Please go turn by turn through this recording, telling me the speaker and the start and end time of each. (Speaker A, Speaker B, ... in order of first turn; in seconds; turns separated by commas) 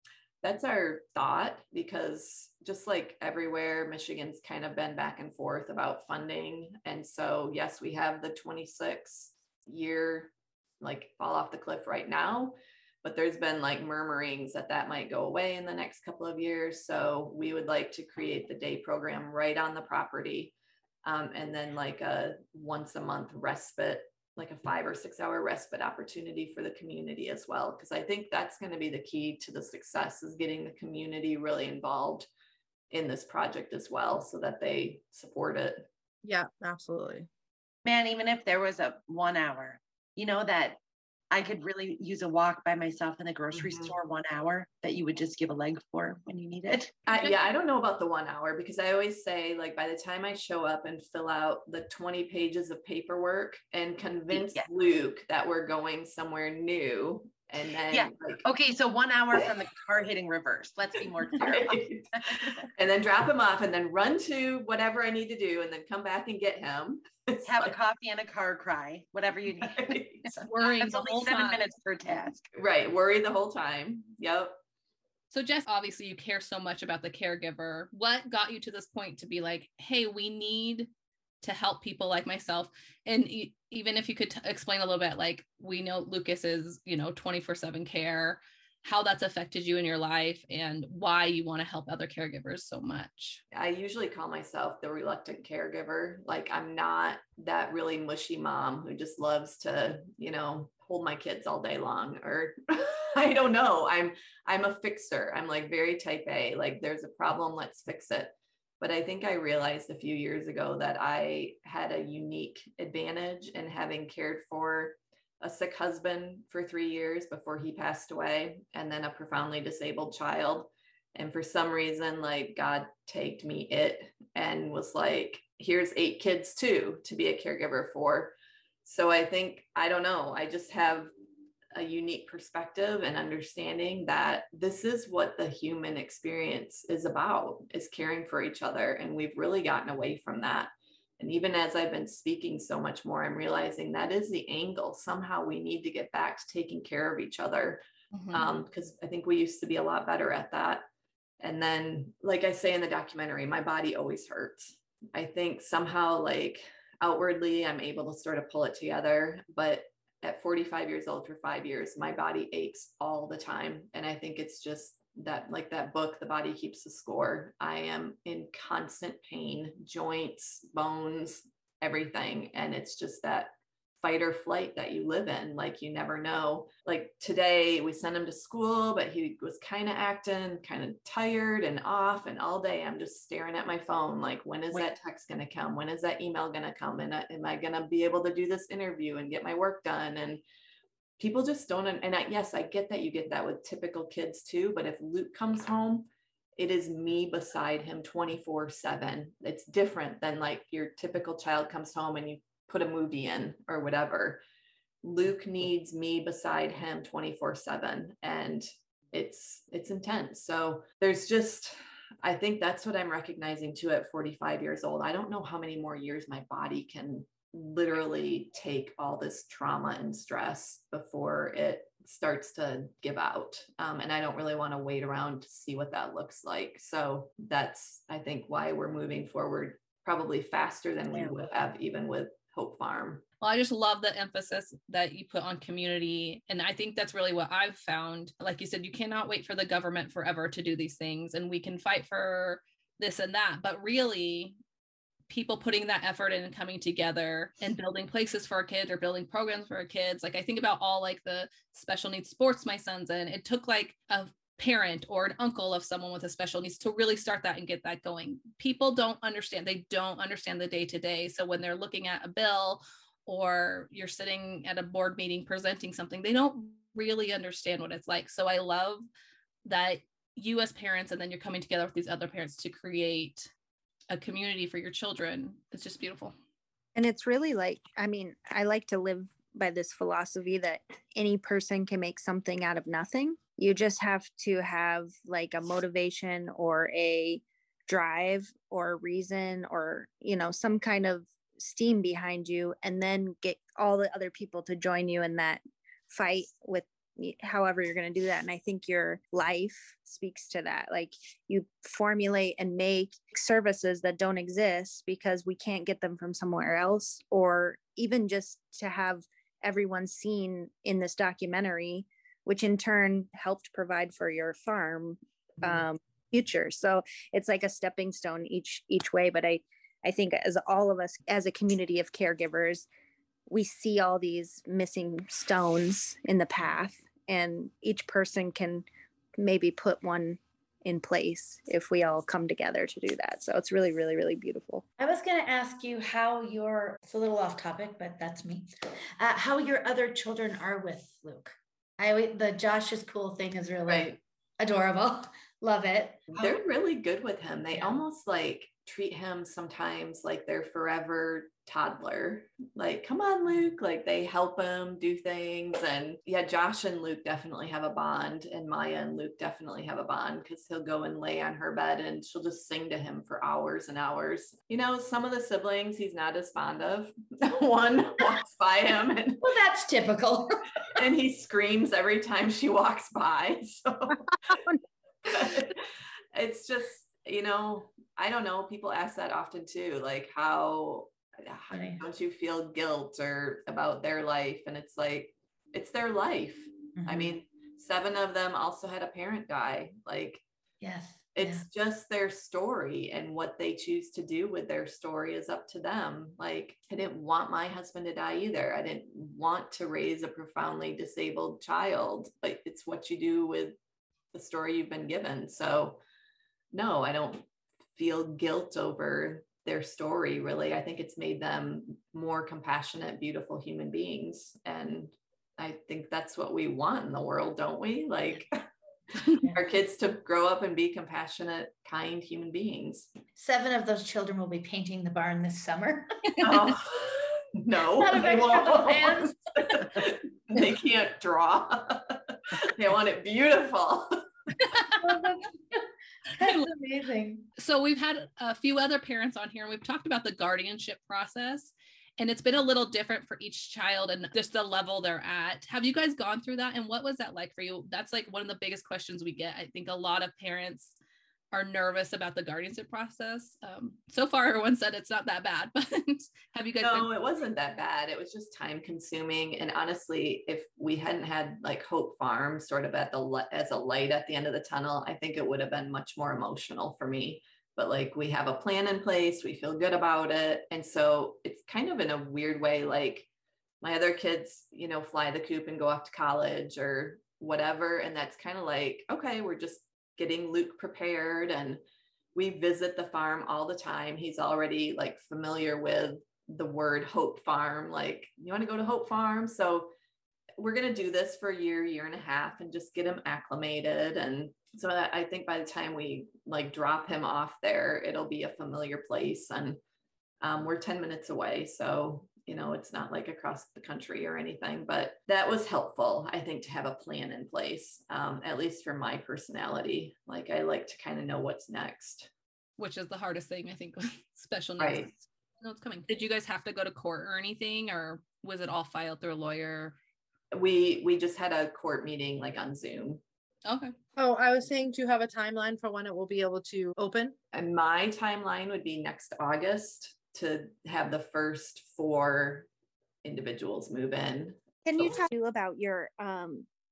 Speaker A: 0.4-32.3, Speaker A: 32.9-35.9, Speaker B: 36.2-37.3, Speaker C: 37.8-40.8, Speaker C: 41.3-46.9, Speaker A: 43.5-43.9, Speaker A: 47.1-58.4, Speaker C: 54.3-54.7, Speaker C: 57.9-62.6, Speaker A: 61.0-67.7, Speaker C: 67.5-72.4, Speaker A: 69.6-70.3, Speaker D: 70.3-71.6, Speaker A: 72.5-74.5, Speaker D: 75.3-80.9, Speaker D: 81.4-93.4, Speaker A: 93.5-128.3, Speaker A: 128.8-131.1, Speaker A: 131.7-150.9, Speaker D: 148.1-148.5, Speaker A: 151.4-190.4, Speaker A: 191.2-204.4, Speaker A: 205.0-233.2, Speaker D: 233.4-244.6, Speaker D: 245.3-269.0, Speaker D: 269.6-273.5, Speaker D: 274.1-276.3, Speaker E: 276.9-322.9, Speaker E: 323.5-328.9, Speaker E: 329.4-334.8, Speaker F: 335.0-346.6, Speaker A: 343.9-344.2, Speaker A: 346.3-369.5, Speaker F: 347.7-348.0, Speaker F: 369.4-370.6, Speaker A: 370.9-374.6, Speaker E: 374.5-374.8, Speaker A: 375.2-390.4, Speaker F: 381.7-382.0, Speaker F: 386.9-387.4, Speaker F: 390.8-391.6, Speaker A: 391.4-403.7, Speaker A: 404.3-406.0, Speaker A: 406.7-418.6, Speaker A: 419.5-423.1, Speaker F: 423.4-426.5, Speaker A: 426.4-434.1, Speaker F: 428.0-430.0, Speaker F: 435.0-435.8, Speaker F: 436.3-437.5, Speaker D: 436.4-436.6, Speaker D: 437.6-450.9, Speaker D: 451.5-457.1, Speaker A: 456.8-473.3, Speaker A: 473.8-481.8, Speaker A: 482.3-489.9, Speaker A: 490.6-499.8, Speaker A: 500.4-512.3, Speaker D: 512.8-520.0, Speaker A: 514.8-515.1, Speaker A: 520.5-523.2, Speaker D: 523.6-523.9, Speaker B: 524.1-527.4, Speaker A: 527.5-532.7, Speaker A: 533.2-535.2, Speaker E: 534.9-536.7